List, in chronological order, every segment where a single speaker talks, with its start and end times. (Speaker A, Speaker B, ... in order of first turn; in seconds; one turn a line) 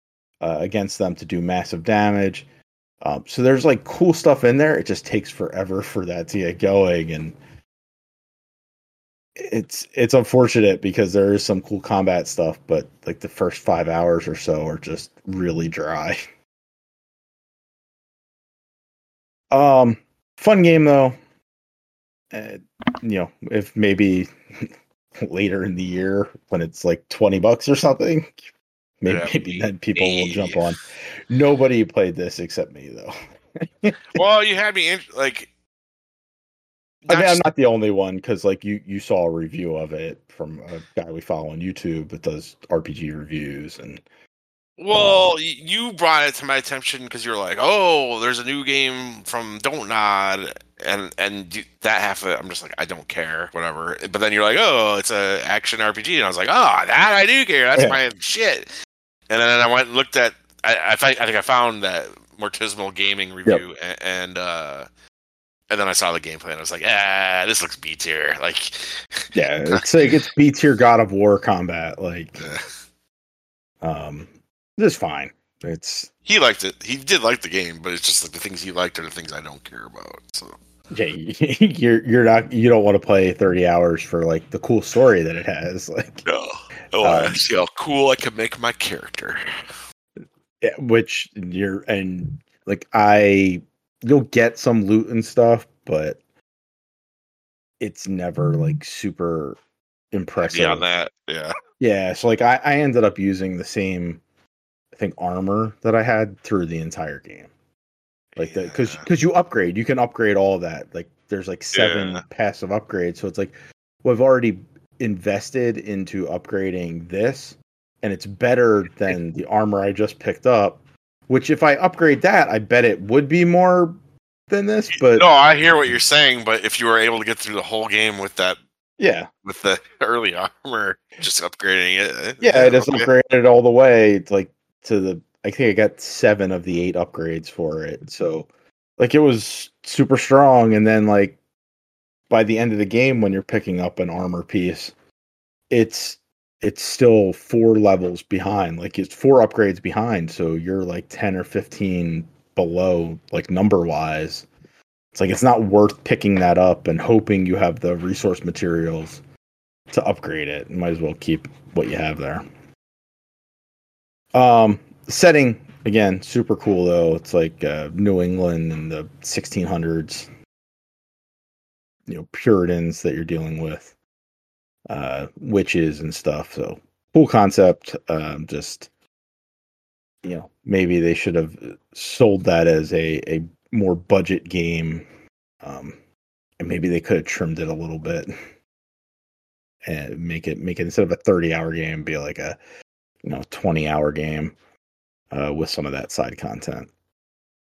Speaker A: 0.4-2.5
Speaker A: 3.0-7.4
Speaker A: 9.4-16.2
Speaker A: 19.5-21.1
Speaker A: 22.3-24.3
Speaker A: 25.2-28.4
Speaker A: 29.0-34.2
Speaker B: 29.1-29.4
Speaker B: 30.0-30.6
Speaker B: 34.1-35.5
Speaker B: 37.1-37.4
Speaker A: 37.1-44.0
Speaker B: 44.8-58.7
Speaker A: 44.9-45.3
Speaker A: 57.8-58.0
Speaker B: 59.3-64.9
Speaker B: 65.7-70.2
Speaker A: 69.3-72.5
Speaker B: 72.4-72.7
Speaker A: 73.8-76.1
Speaker B: 76.3-80.5
Speaker A: 80.9-86.2
Speaker B: 86.2-89.4
Speaker A: 87.0-87.4
Speaker A: 90.6-96.2
Speaker A: 97.8-99.6
Speaker A: 100.1-100.8
Speaker B: 100.4-101.5
Speaker A: 101.8-104.2
Speaker A: 104.9-107.5
Speaker B: 108.3-109.0
Speaker A: 108.4-124.0
Speaker B: 111.7-112.2
Speaker A: 124.5-125.3
Speaker B: 125.0-128.6
Speaker A: 129.0-129.3
Speaker B: 129.4-133.1
Speaker A: 132.4-141.4
Speaker A: 142.3-144.9
Speaker A: 145.7-154.5
Speaker A: 155.1-159.2
Speaker A: 159.9-162.4
Speaker A: 164.3-170.3
Speaker A: 172.1-173.9
Speaker A: 174.9-178.9
Speaker A: 180.2-185.1
Speaker A: 185.6-186.0
Speaker A: 186.6-188.3
Speaker A: 189.8-192.6
Speaker A: 193.2-194.6
Speaker A: 195.3-196.9